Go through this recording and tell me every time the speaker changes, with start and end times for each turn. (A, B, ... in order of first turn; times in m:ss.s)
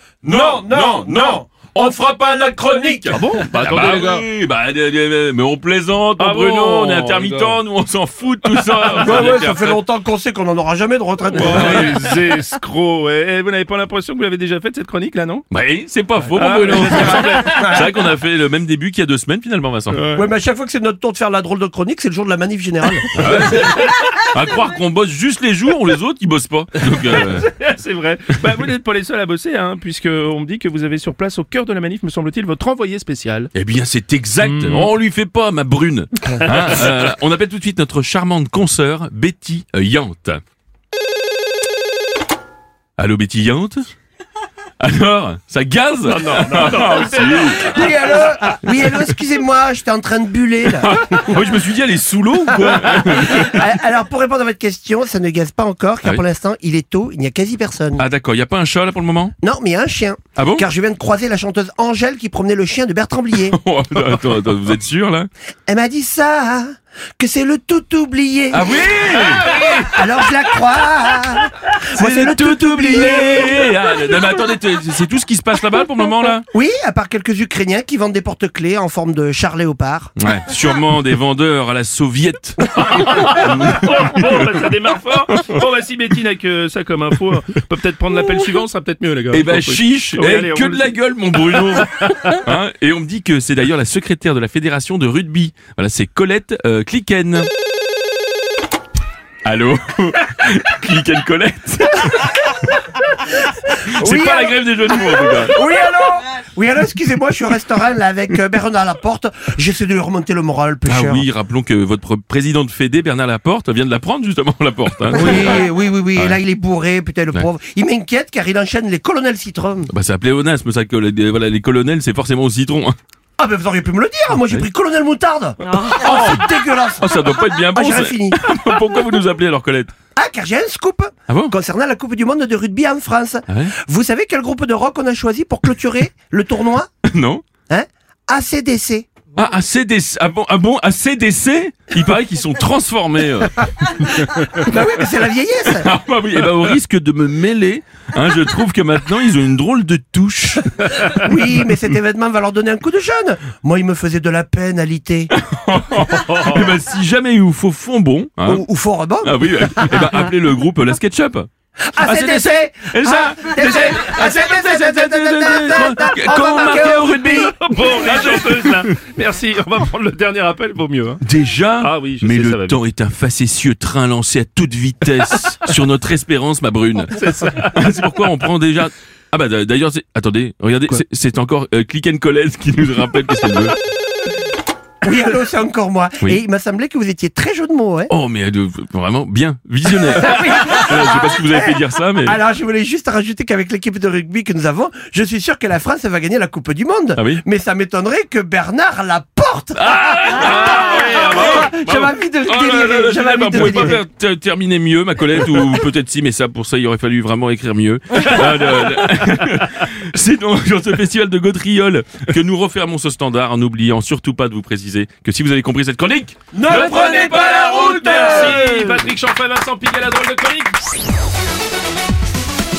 0:00.2-0:02.0 A
0:00.2-0:03.2 B
0:02.7-0:09.8 A
0:03.1-0:04.2 C
0:06.2-0:07.6 C
0:08.5-0:09.3 C
0:09.0-0:11.9 B
0:11.3-0:15.4 C
0:11.4-0:12.2 A
0:15.5-0:20.0 A
0:16.3-0:17.8 C
0:19.9-0:20.2 C
0:20.1-0:23.5 B
0:23.1-0:27.5 A
0:23.7-0:24.0 C
0:26.8-0:33.5 C
0:33.5-0:40.4 A
0:34.4-0:34.9 C
0:36.4-0:36.8 C
0:43.0-0:43.9 A
0:44.8-0:47.8 A
0:46.0-0:47.9 C
0:47.3-0:51.4 B
0:50.6-0:53.6 A
0:52.5-0:58.0 B
0:58.0-0:59.4 A
0:59.4-1:03.6 B
1:00.4-1:00.6 A
1:03.4-1:05.3 A
1:05.7-1:08.7 B
1:08.5-1:10.0 A
1:09.2-1:09.8 C
1:09.8-1:13.7 B
1:11.5-1:16.4 A
1:16.5-1:20.1 B
1:20.2-1:24.6 A
1:22.7-1:32.4 C
1:29.3-1:37.5 A
1:39.4-1:42.8 A
1:43.7-1:45.6 A
1:43.9-1:51.2 B
1:50.9-1:56.4 A
1:55.1-1:59.9 B
1:59.9-2:03.0 A
2:03.4-2:08.4 B
2:05.7-2:05.9 C
2:05.9-2:09.9 A
2:10.1-2:16.9 B
2:11.3-2:11.5 A
2:13.5-2:13.7 A
2:17.0-2:17.5 A
2:17.7-2:19.1 B
2:19.3-2:24.7 A
2:24.5-2:25.9 B
2:25.7-2:31.1 A
2:31.1-2:35.3 B
2:35.3-2:38.6 A
2:36.2-2:36.7 C
2:38.4-2:40.1 B
2:39.2-2:41.5 A
2:41.8-2:47.5 B
2:42.0-2:48.9 A
2:47.4-2:51.2 C
2:51.2-3:03.7 A
2:51.8-2:52.8 C
2:57.1-2:57.9 C
3:05.0-3:08.1 B
3:08.1-3:12.4 A
3:10.0-3:24.0 B
3:17.2-3:17.4 A
3:19.8-3:21.7 A
3:20.4-3:22.2 C
3:22.4-3:38.5 A
3:36.5-3:38.9 B
3:37.2-3:40.8 C